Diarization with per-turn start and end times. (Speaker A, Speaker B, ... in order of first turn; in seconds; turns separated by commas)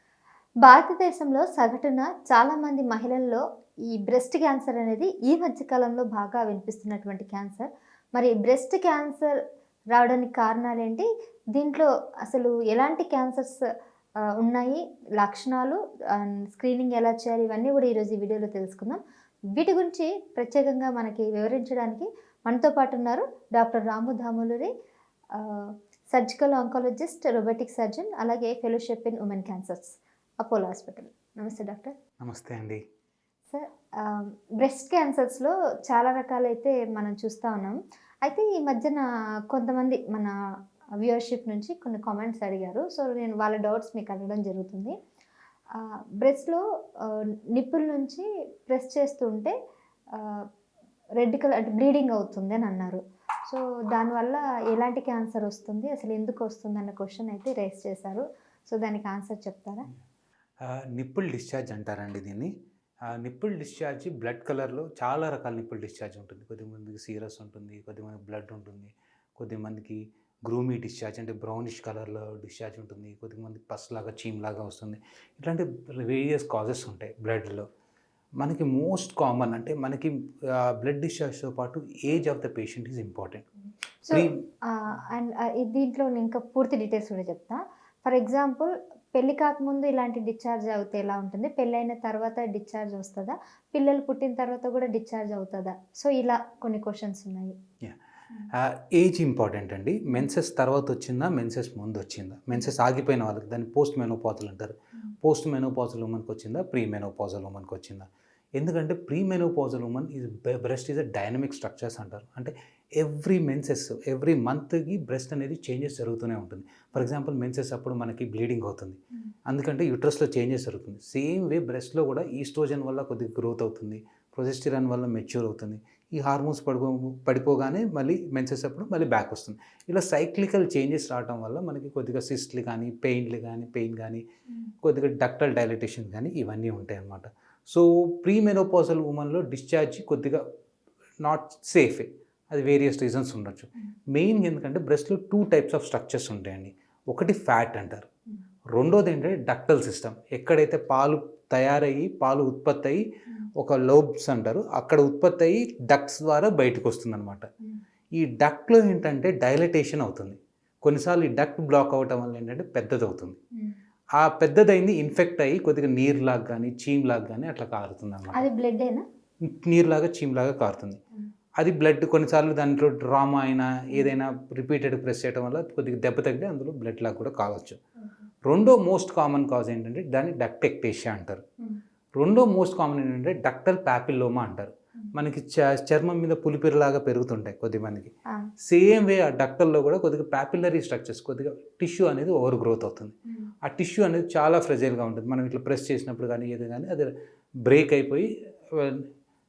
Speaker A: 0.6-9.3, Speaker A: 9.9-13.6, Speaker A: 14.4-19.0, Speaker A: 19.6-24.7, Speaker A: 25.4-31.9, Speaker B: 32.2-32.8, Speaker A: 33.5-40.3, Speaker A: 41.0-45.0, Speaker A: 45.8-49.5, Speaker A: 50.1-50.4, Speaker A: 51.2-59.9, Speaker B: 60.6-62.5, Speaker B: 63.1-77.7, Speaker B: 78.4-83.5, Speaker A: 84.0-97.5, Speaker B: 98.5-108.0, Speaker B: 108.6-134.2, Speaker B: 134.8-140.4, Speaker B: 141.2-148.1, Speaker B: 148.7-153.0, Speaker B: 153.6-157.5, Speaker B: 158.2-163.4, Speaker B: 164.2-168.4, Speaker A: 168.3-169.0, Speaker B: 169.4-171.0, Speaker B: 171.6-177.8, Speaker B: 178.5-181.4, Speaker B: 182.2-188.1, Speaker B: 188.6-197.1, Speaker B: 197.7-199.1